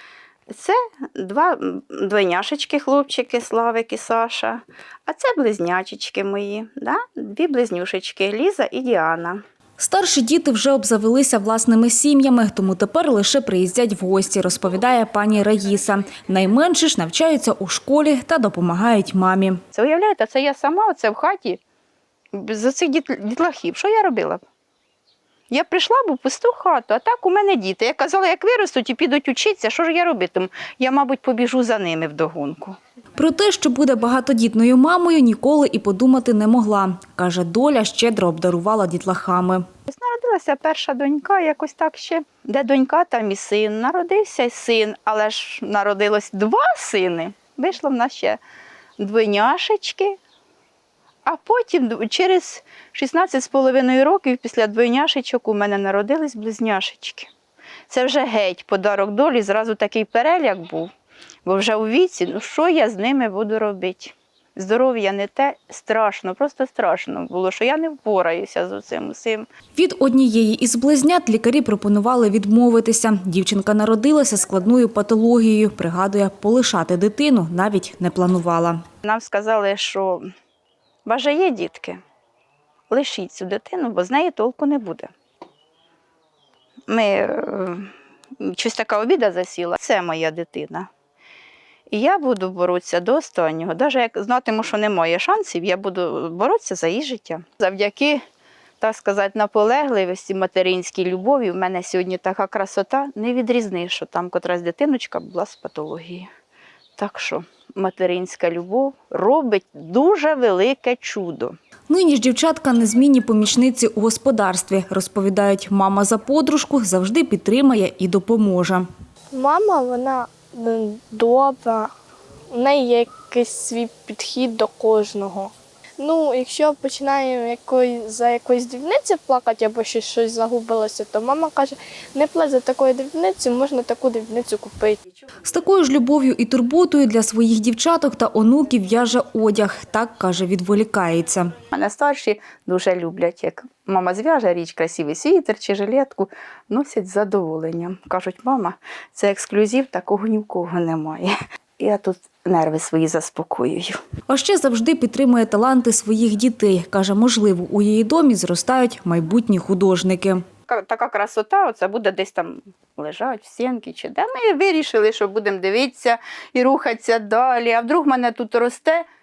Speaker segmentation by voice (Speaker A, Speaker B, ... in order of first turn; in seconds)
Speaker A: 0.5-9.4, 19.7-21.6, 22.3-24.4, 25.5-32.8, 39.9-48.4, 49.0-50.2, 51.3-57.3, 57.9-60.9, 61.5-69.5, 79.0-80.3, 81.1-82.0, 82.9-85.1, 86.9-90.9, 91.9-98.2, 98.8-106.3, 107.0-111.5, 141.7-154.0, 160.7-169.1
Speaker B: 9.8-19.6, 33.2-39.6, 69.8-78.8, 111.9-118.9, 135.4-141.5, 154.3-160.4
Speaker C: 119.3-121.9, 122.5-135.0